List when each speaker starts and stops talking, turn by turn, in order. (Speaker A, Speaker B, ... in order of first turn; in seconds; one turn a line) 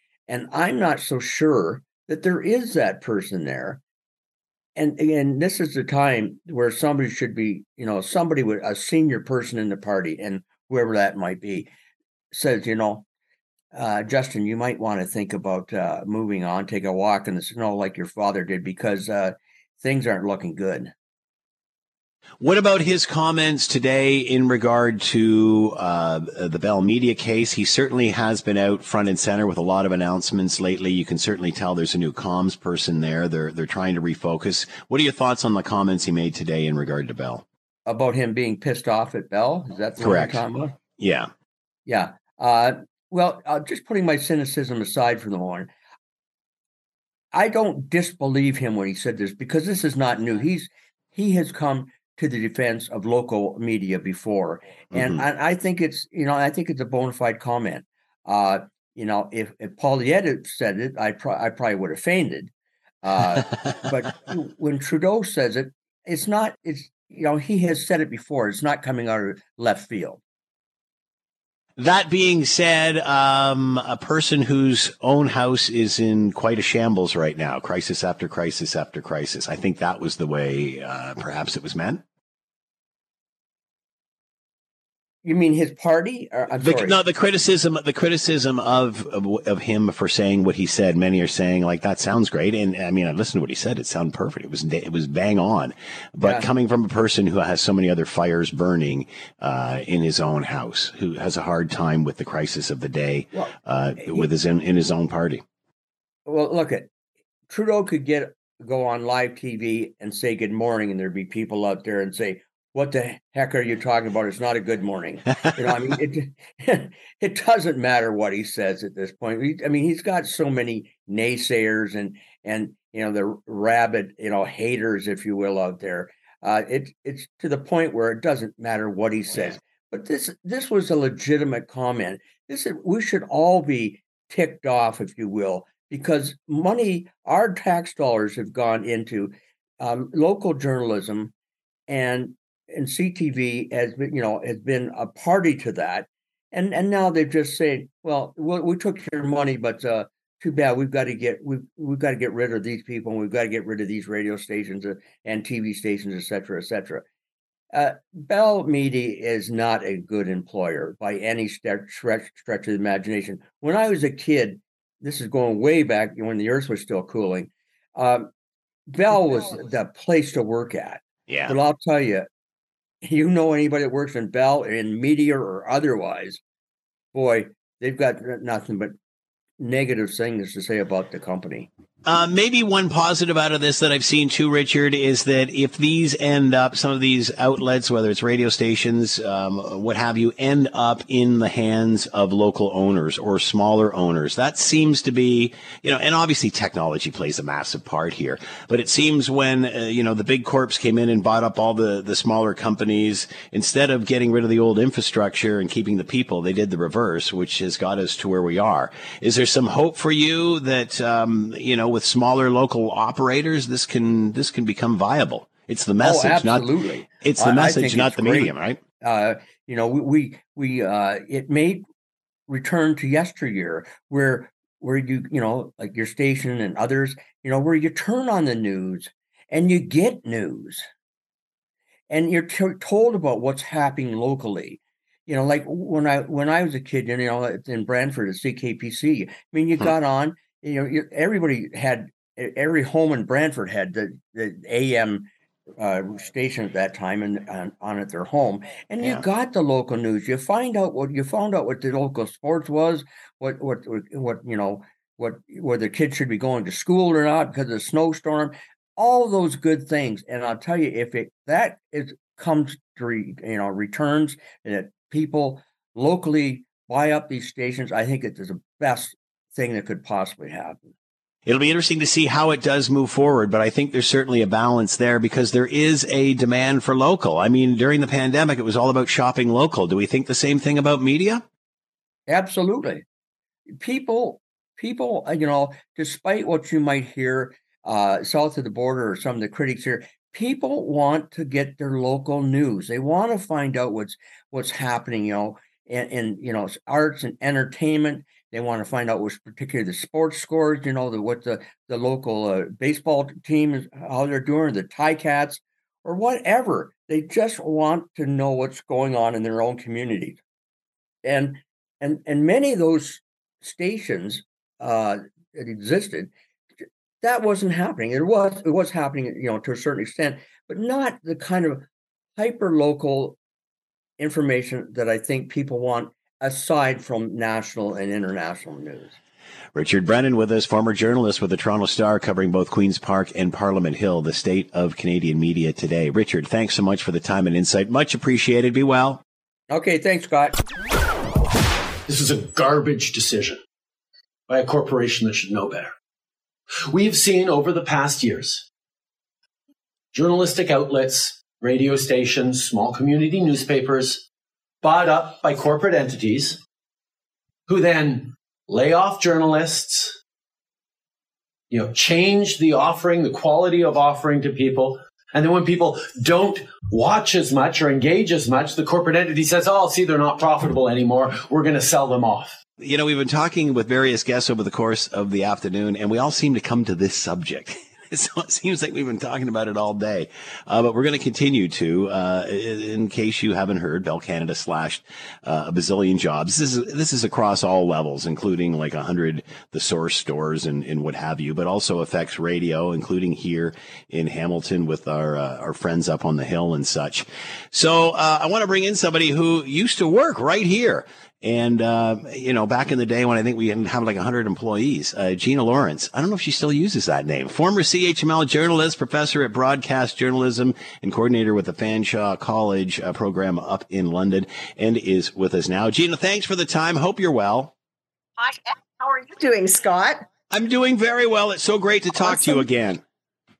Speaker A: 0.3-3.8
Speaker A: 4.8-11.7
Speaker A: 12.3-13.1
Speaker A: 13.7-20.9
Speaker B: 22.4-37.4
Speaker A: 37.9-40.7
Speaker B: 40.0-40.4
Speaker B: 41.0-41.3
Speaker A: 41.9-45.7
Speaker A: 47.3-62.5
Speaker B: 54.9-55.2
Speaker A: 63.0-70.2
Speaker B: 71.8-82.0
Speaker A: 85.2-87.0
Speaker B: 86.6-105.4
Speaker A: 96.2-96.5
Speaker A: 103.3-104.3
Speaker A: 106.2-106.9
Speaker A: 107.5-141.3
Speaker A: 141.9-157.0
Speaker A: 157.7-168.3
Speaker A: 168.9-172.3
Speaker B: 171.3-171.5
Speaker A: 173.0-176.4
Speaker A: 177.1-178.9
Speaker A: 179.6-181.7
Speaker B: 182.0-218.8
Speaker A: 216.0-221.8
Speaker A: 222.5-230.8
Speaker A: 232.1-245.3
Speaker A: 245.8-270.9
Speaker B: 271.4-281.4
Speaker A: 282.3-283.0
Speaker A: 283.7-310.4
Speaker A: 311.2-316.3
Speaker A: 317.2-323.4
Speaker A: 324.2-329.2
Speaker B: 329.7-339.2
Speaker A: 339.7-340.6
Speaker C: 342.1-343.6
Speaker C: 344.5-345.9
Speaker C: 346.9-348.7
Speaker C: 350.1-354.2
Speaker C: 354.8-356.6
Speaker C: 357.7-360.2
Speaker C: 361.7-372.6
Speaker B: 372.8-417.7
Speaker D: 418.4-420.3
Speaker B: 420.5-423.0
Speaker D: 422.1-422.7